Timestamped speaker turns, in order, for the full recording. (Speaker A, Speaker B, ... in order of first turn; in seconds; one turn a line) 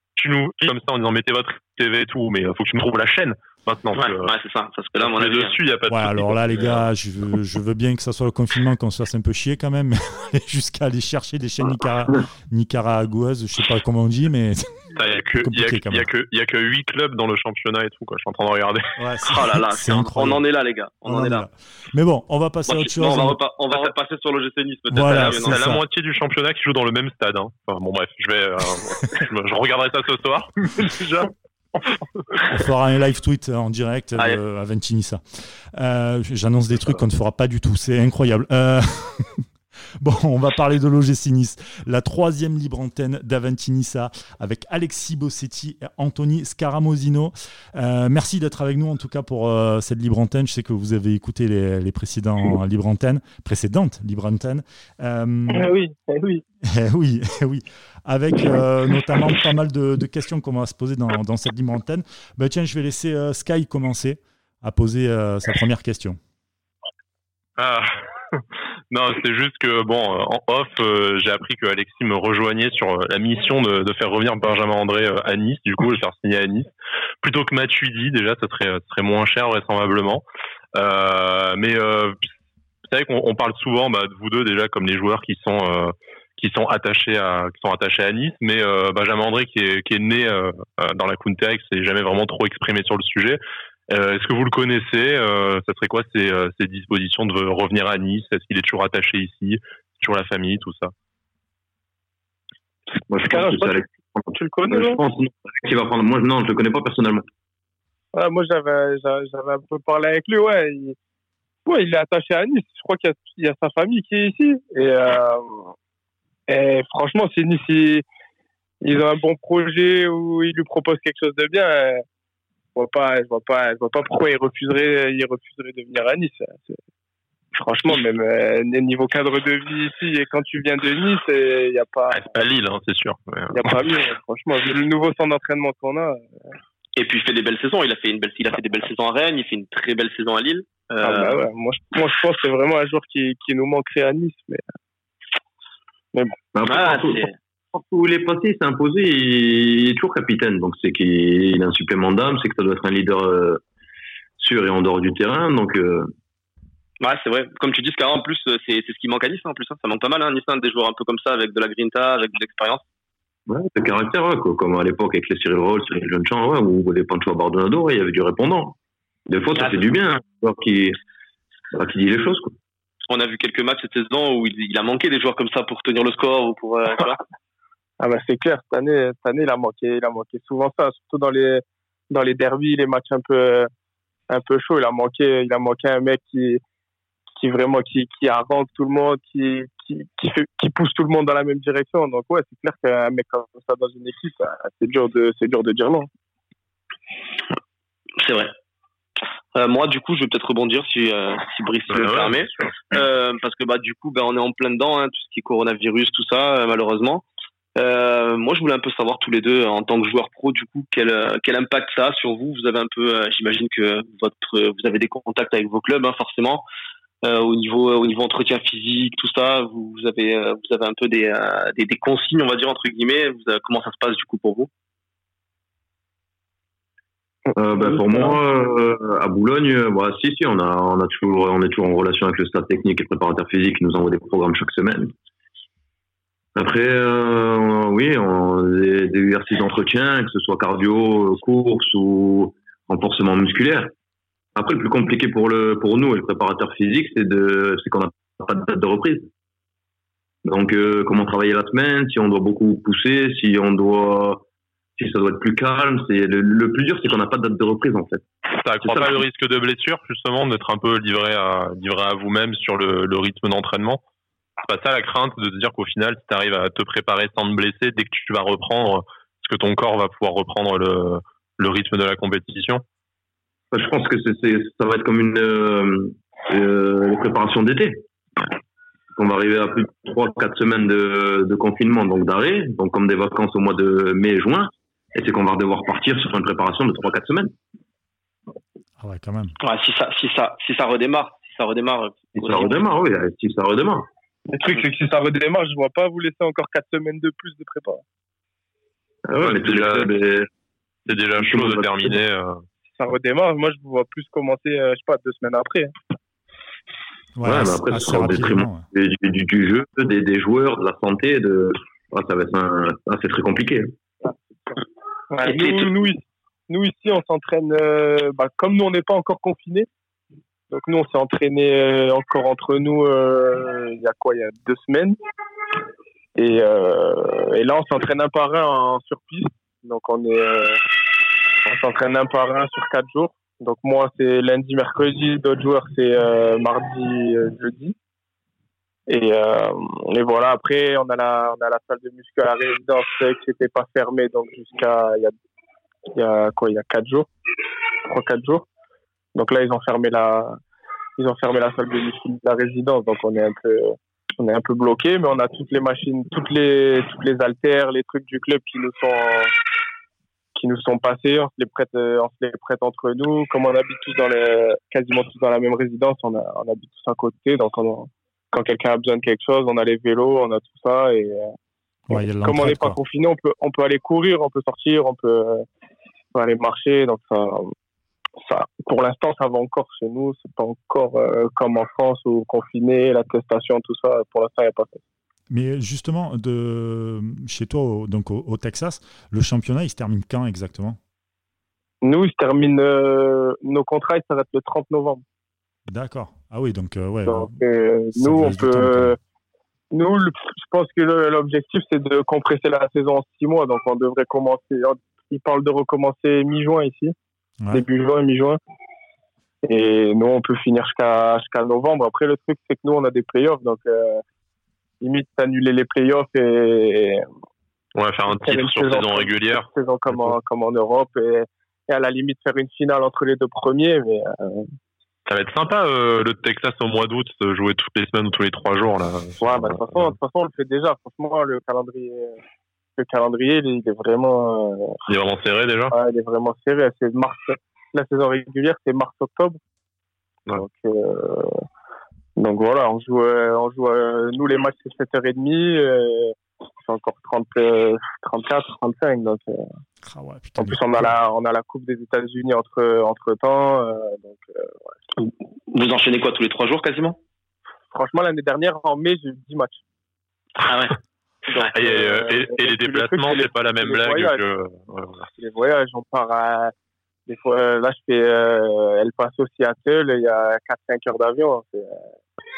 Speaker A: 0.2-4.3
Speaker B: 3.9-5.5
Speaker A: 5.0-6.9
Speaker C: 5.9-16.1
Speaker A: 14.9-19.0
Speaker C: 19.0-20.4
Speaker B: 19.2-21.4
Speaker C: 21.1-23.4
Speaker B: 22.6-25.6
Speaker C: 24.9-25.8
Speaker A: 25.1-31.3
Speaker C: 32.5-39.4
Speaker C: 40.0-55.7
Speaker D: 55.5-56.4
Speaker C: 56.6-66.2
Speaker A: 67.6-76.7
Speaker A: 77.2-80.2
Speaker A: 80.7-82.3
Speaker A: 82.8-100.9
Speaker E: 103.1-107.2
Speaker D: 103.2-105.0
Speaker D: 108.1-111.0
Speaker D: 111.7-115.7
Speaker D: 116.5-118.0
Speaker D: 118.8-122.0
Speaker D: 122.8-126.8
Speaker D: 127.5-132.2
Speaker A: 132.1-133.8
Speaker D: 133.5-136.2
Speaker B: 136.9-141.4
Speaker D: 141.0-144.6
Speaker E: 146.5-153.6
Speaker B: 146.7-147.3
Speaker E: 154.4-156.1
Speaker B: 157.0-162.8
Speaker E: 163.5-168.8
Speaker E: 169.3-171.0
Speaker B: 169.6-169.9
Speaker E: 171.7-172.5
Speaker B: 173.1-177.2
Speaker D: 178.0-183.7
Speaker D: 184.3-186.6
Speaker D: 187.3-196.1
Speaker B: 198.2-198.5
Speaker B: 199.5-207.2
Speaker A: 201.9-202.3
Speaker B: 207.8-216.6
Speaker B: 217.2-224.7
Speaker E: 227.6-235.1
Speaker D: 227.8-228.3
Speaker E: 236.5-243.9
Speaker E: 244.5-249.3
Speaker E: 250.4-254.4
Speaker E: 255.0-258.2
Speaker A: 258.5-264.0
Speaker E: 258.8-259.1
Speaker A: 264.6-272.8
Speaker E: 273.7-278.0
Speaker E: 279.1-287.5
Speaker C: 289.0-289.6
Speaker B: 289.6-292.9
Speaker E: 292.3-294.1
Speaker D: 294.5-298.0
Speaker E: 299.3-300.5
Speaker A: 299.4-300.2
Speaker A: 301.1-302.6
Speaker E: 301.4-302.2
Speaker D: 303.0-305.9
Speaker C: 307.4-308.9
Speaker E: 307.4-313.9
Speaker D: 315.3-319.9
Speaker B: 315.4-315.9
Speaker D: 320.7-325.2
Speaker D: 326.4-330.8
Speaker D: 331.6-337.9
Speaker D: 339.1-345.3
Speaker D: 346.1-347.3
Speaker D: 348.1-348.6
Speaker D: 349.3-350.6
Speaker D: 351.2-359.5
Speaker D: 360.5-371.5
Speaker C: 372.1-373.0
Speaker D: 372.1-375.6
Speaker D: 376.3-377.7
Speaker D: 378.4-385.0
Speaker C: 385.5-391.0
Speaker D: 392.0-395.2
Speaker C: 395.9-397.5
Speaker D: 397.2-399.2
Speaker C: 398.1-399.1
Speaker D: 399.9-407.1
Speaker D: 407.7-408.6
Speaker D: 409.6-414.2
Speaker D: 415.0-417.2
Speaker A: 417.9-420.3
Speaker D: 418.3-424.7
Speaker A: 425.3-430.1
Speaker D: 429.4-432.4
Speaker D: 433.0-435.0
Speaker A: 435.1-435.9
Speaker D: 435.9-439.6
Speaker D: 440.5-441.6
Speaker D: 442.4-449.6
Speaker C: 450.0-451.1
Speaker D: 450.6-454.7
Speaker B: 455.2-457.2
Speaker D: 457.9-459.8
Speaker B: 460.6-461.0
Speaker D: 461.5-464.4
Speaker A: 461.7-465.3
Speaker D: 465.4-466.7
Speaker D: 467.3-472.0